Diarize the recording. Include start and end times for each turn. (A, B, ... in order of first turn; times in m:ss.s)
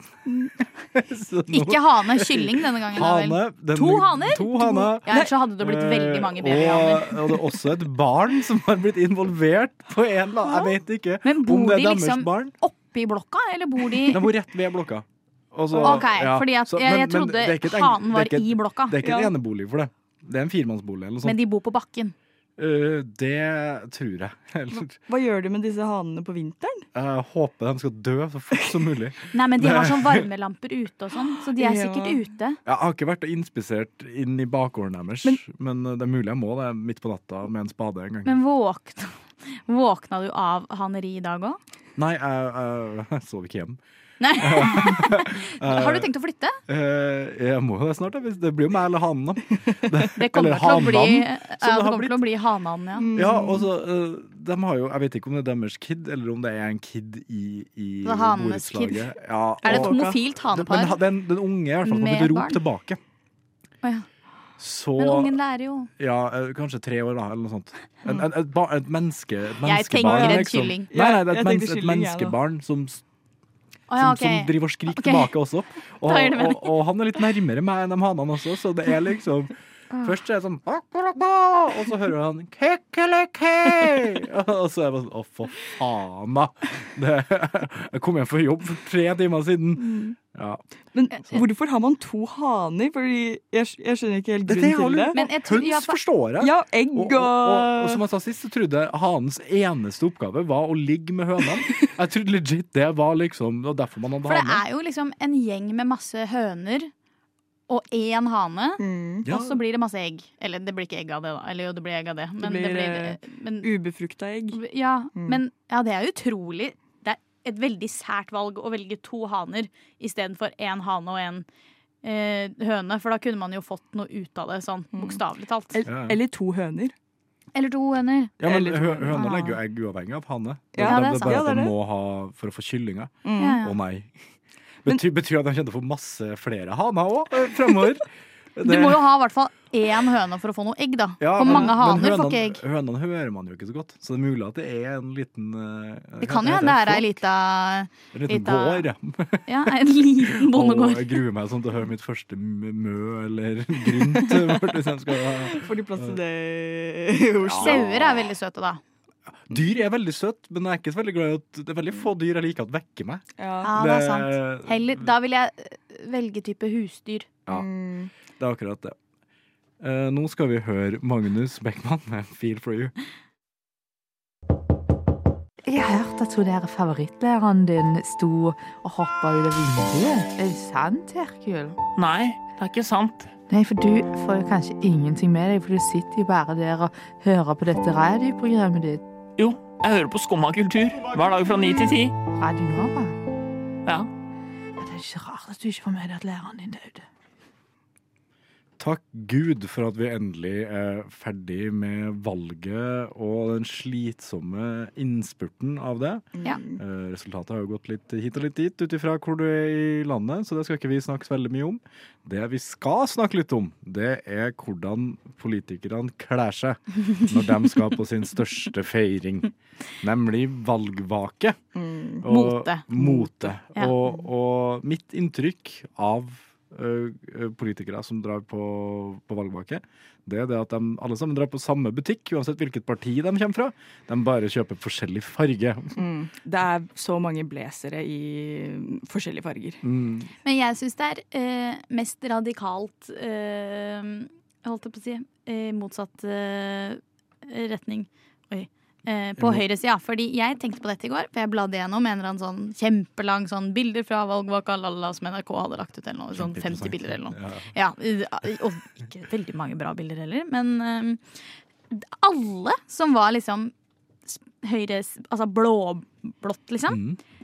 0:00.3-0:00.5 A
0:00.8-0:12.5 B
0:01.5-0:07.4 C
0:11.2-0:14.3 C
0:14.0-0:21.4 B
0:15.7-0:16.0 A
0:15.8-0:19.0 C
0:19.0-0:19.3 A
0:21.2-0:22.1 C
0:22.6-0:24.9 B
0:24.7-0:26.8 A
0:26.9-0:30.3 B
0:29.3-0:32.6 C
0:31.6-0:32.2 A
0:32.6-0:38.4 B
0:38.2-0:39.1 C
0:39.6-0:41.6 C
0:42.0-0:43.8 B
0:44.2-0:46.6 C
0:44.4-0:46.1 B
0:46.7-0:52.2 B
0:50.2-0:53.1 C
0:53.0-0:53.7 A
0:53.1-1:03.0 B
0:58.0-0:59.1 C
0:59.6-1:01.0 C
0:59.6-1:00.2 A
1:01.8-1:02.6 C
1:04.6-1:05.4 B
1:05.0-1:05.9 C
1:06.0-1:13.0 B
1:09.6-1:10.9 C
1:10.1-1:12.4 A
1:13.9-1:15.3 C
1:14.0-1:30.6 B
1:16.0-1:16.7 C
1:29.8-1:30.1 A
1:30.9-1:35.2 A
1:34.4-1:44.6 B
1:35.1-1:36.0 C
1:36.4-1:38.0 A
1:44.2-1:46.9 C
1:47.7-1:53.7 C
1:48.8-1:49.3 A
1:49.2-1:49.6 B
1:52.4-1:54.6 A
1:54.5-2:01.4 C
2:02.0-2:05.8 C
2:04.9-2:05.2 A
2:05.7-2:06.9 A
2:05.8-2:06.2 B
2:07.5-2:08.3 C
2:08.4-2:09.4 A
2:08.4-2:14.1 B
2:09.1-2:09.5 C
2:10.7-2:11.7 A
2:10.8-2:11.4 C
2:13.2-2:13.6 A
2:13.4-2:13.7 C
2:14.8-2:19.0 B
2:18.6-2:22.6 C
2:21.2-2:27.2 B
2:21.4-2:21.7 A
2:26.2-2:28.9 C
2:28.1-2:29.7 B
2:29.5-2:31.2 C
2:30.2-2:36.2 B
2:34.2-2:34.8 A
2:35.5-2:37.8 A
2:37.4-2:38.3 B
2:37.6-2:38.8 C
2:39.4-2:45.1 B
2:43.4-2:43.7 A
2:43.6-2:47.3 C
2:47.5-2:48.1 A
2:48.4-2:49.0 B
2:49.8-2:52.9 B
2:55.7-3:01.8 D
3:02.0-3:03.3 E
3:03.5-3:09.0 D
3:09.4-3:12.2 E
3:12.4-3:13.1 D
3:13.8-3:14.1 E
3:14.8-3:17.0 D
3:18.8-3:41.6 B
3:26.3-3:26.8 A
3:41.7-3:42.2 A
3:42.2-3:56.0 B
3:42.2-3:43.9 C
3:56.0-3:59.8 A
3:59.8-4:00.3 B
4:00.4-4:21.2 C
4:09.4-4:09.6 B
4:16.3-4:17.7 B
4:21.9-4:23.7 C
4:24.3-4:27.0 C
4:26.9-4:27.2 B